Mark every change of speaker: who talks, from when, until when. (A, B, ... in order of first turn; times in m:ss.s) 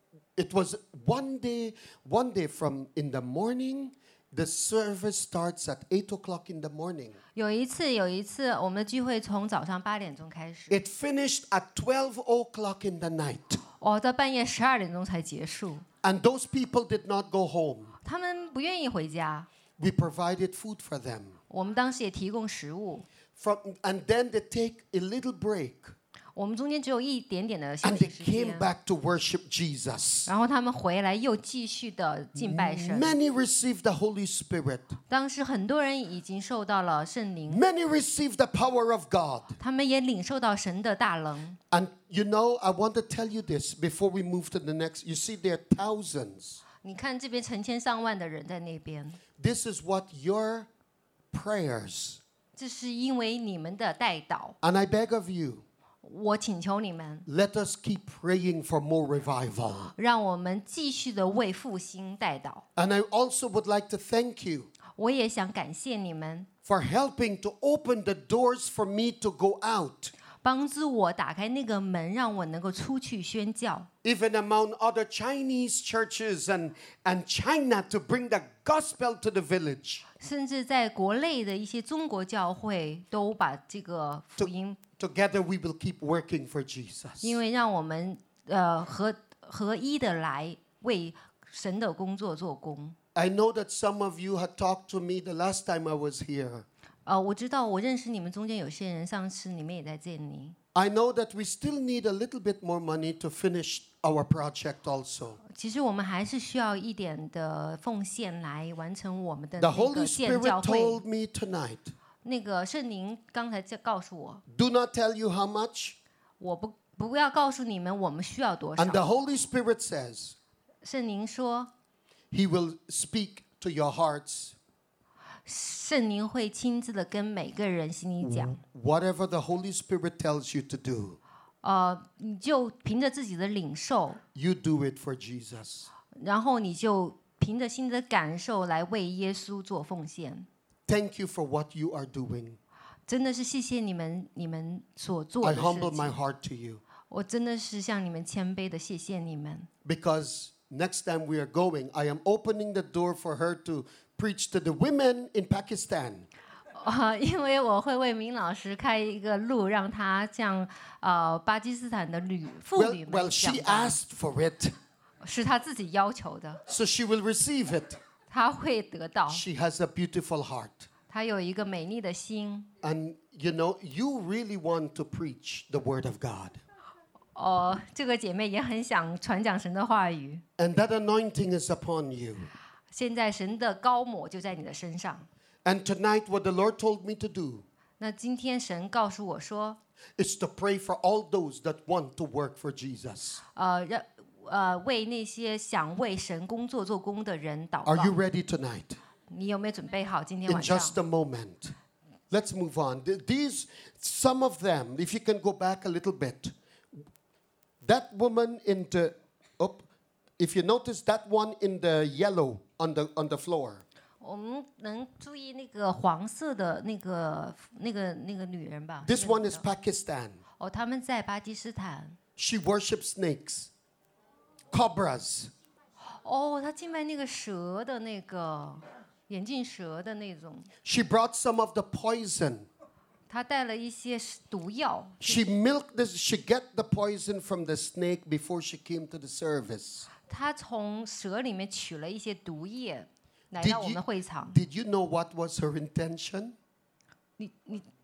0:00.4-0:07.2 A
0:07.4-0:10.8 B
0:10.7-0:13.6 A
0:13.8-0:15.8 B
0:16.0-0:18.0 A
0:18.0-0:19.5 B
0:19.8-0:21.4 A
0:21.5-0:23.1 B
0:23.4-0:25.9 A
0:26.4-0:28.7 B
0:27.8-0:30.3 A
0:30.3-0:33.2 B
0:32.4-0:35.0 A
0:35.1-0:37.6 B
0:37.5-0:39.6 A
0:39.6-0:41.6 B
0:41.7-0:46.6 A
0:46.8-0:49.2 B
0:49.4-0:50.7 A
0:51.3-0:52.2 A
0:52.6-0:54.6 B
0:54.6-0:55.6 A
0:56.0-0:57.3 B
0:57.3-0:59.9 A
1:00.0-1:02.6 B
1:02.8-1:04.7 A
1:05.0-1:06.5 B
1:06.6-1:10.1 A
1:10.4-1:13.9 B
1:14.0-1:20.0 A
1:20.2-1:24.8 B
1:24.4-1:27.4 A
1:27.2-1:33.0 B
1:33.2-1:36.7 A
1:37.1-1:40.6 B
1:40.7-1:45.4 A
1:45.5-1:51.0 B
1:49.6-1:51.9 A
1:52.2-1:54.4 B
1:54.5-1:56.0 A
1:56.4-1:59.0 B
1:58.8-2:00.4 A
2:00.8-2:01.7 B
2:02.3-2:04.6 A
2:05.5-2:08.6 B
2:08.2-2:11.2 A
2:11.6-2:14.2 B
2:14.3-2:15.9 A
2:16.1-2:20.5 B
2:20.9-2:22.6 A
2:23.1-2:26.2 B
2:25.4-2:26.8 A
2:27.1-2:29.7 B
2:29.8-2:36.3 A
2:36.8-2:44.0 B
2:42.8-2:44.8 A
2:45.2-2:46.6 B
2:46.7-2:48.0 A
2:48.3-2:49.4 B
2:49.3-2:50.9 A
2:51.1-2:52.7 B
2:52.8-2:56.6 A
2:57.4-3:00.4 B
3:00.6-3:02.5 A
3:02.9-3:05.3 B
3:05.6-3:07.6 A
3:08.0-3:09.8 B
3:10.2-3:13.4 A
3:13.6-3:18.2 B
3:17.8-3:19.0 A
3:19.3-3:21.0 B
3:20.5-3:21.8 A
3:22.3-3:27.0 A
3:27.8-3:29.8 A
3:30.4-3:33.8 A
3:34.2-3:39.6 B
3:39.0-3:40.4 A
3:40.6-3:42.2 B
3:42.4-3:43.7 A
3:44.7-3:45.5 A
3:46.2-3:50.7 B
3:50.8-3:52.7 A
3:53.3-3:55.5 B
3:55.2-4:00.1 A
4:00.3-4:04.6 B
4:03.6-4:06.6 A
4:07.4-4:07.9 B